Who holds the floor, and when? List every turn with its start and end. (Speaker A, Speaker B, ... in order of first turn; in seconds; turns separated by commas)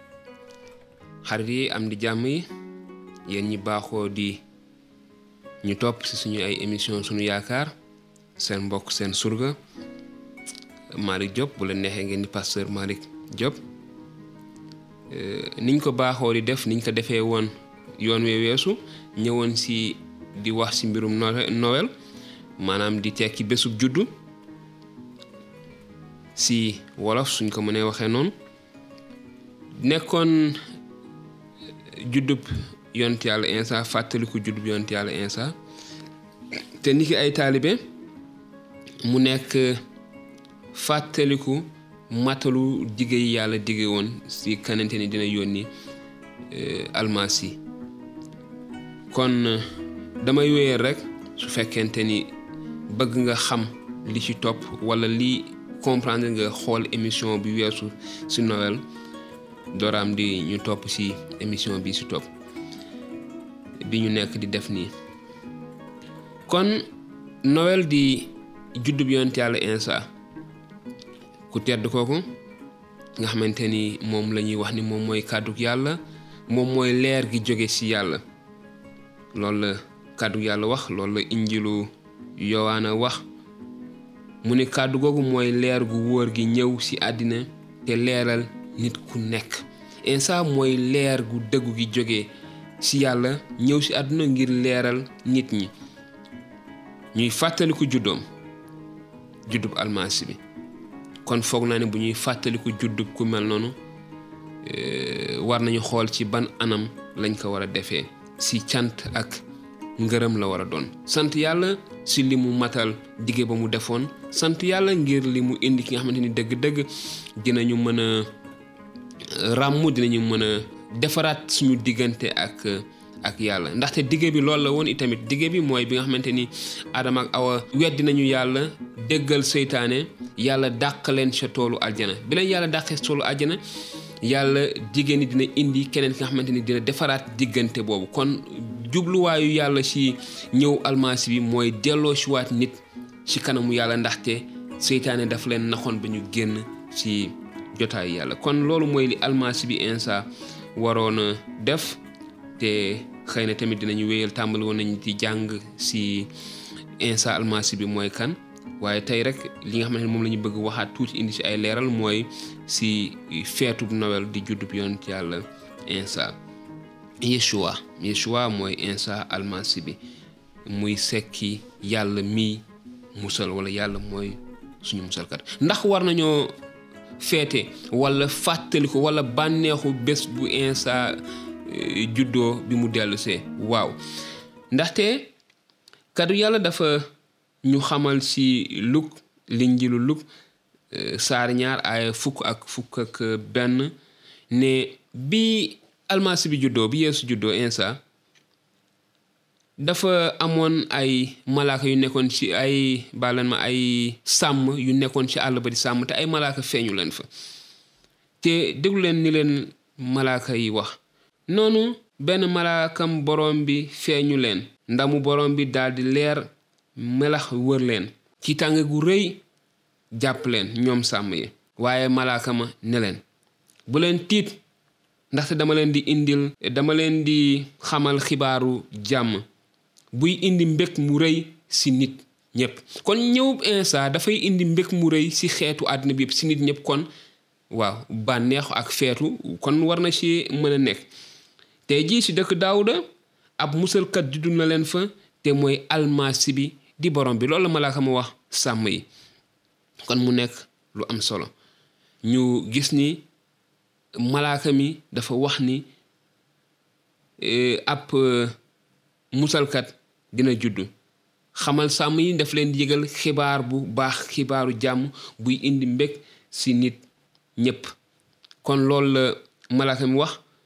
Speaker A: 1.2-2.5, Speaker A: 3.3-4.4, Speaker A: 5.6-7.7, Speaker A: 8.4-9.6, Speaker A: 10.9-13.6, Speaker A: 15.1-21.9, Speaker A: 22.6-24.1, Speaker A: 26.4-28.3, Speaker A: 29.8-30.6, Speaker A: 31.9-35.5, Speaker A: 36.8-37.8, Speaker A: 39.0-39.8, Speaker A: 40.7-45.7, Speaker A: 46.5-47.6, Speaker A: 49.1-49.6, Speaker A: 50.2-52.3, Speaker A: 52.9-58.8, Speaker A: 59.7-62.3, Speaker A: 63.8-64.9, Speaker A: 66.5-66.8, Speaker A: 67.4-70.1, Speaker A: 71.5-72.2, Speaker A: 73.2-78.2, Speaker A: 79.3-83.2, Speaker A: 84.4-95.7, Speaker A: 97.1-98.2, Speaker A: 99.5-100.4, Speaker A: 101.2-103.7, Speaker A: 104.6-109.4, Speaker A: 110.0-118.3, Speaker A: 119.3-133.6, Speaker A: 134.2-152.0, Speaker A: 152.6-156.3, Speaker A: 157.0-166.4, Speaker A: 167.2-170.0, Speaker A: 170.7-172.6, Speaker A: 173.1-176.5, Speaker A: 177.2-184.0, Speaker A: 184.7-185.3, Speaker A: 186.1-187.1, Speaker A: 187.6-190.2, Speaker A: 190.9-193.9, Speaker A: 194.5-198.0, Speaker A: 199.8-207.3, Speaker A: 208.4-210.9, Speaker A: 211.5-219.4, Speaker A: 220.1-223.2, Speaker A: 223.9-224.6, Speaker A: 225.3-229.4, Speaker A: 230.1-237.1, Speaker A: 237.7-241.1, Speaker A: 241.9-243.0, Speaker A: 243.6-249.1, Speaker A: 250.0-251.5, Speaker A: 252.2-253.2, Speaker A: 254.2-255.9, Speaker A: 257.4-258.6, Speaker A: 259.3-260.9, Speaker A: 261.5-267.0, Speaker A: 267.6-267.9, Speaker A: 268.6-270.4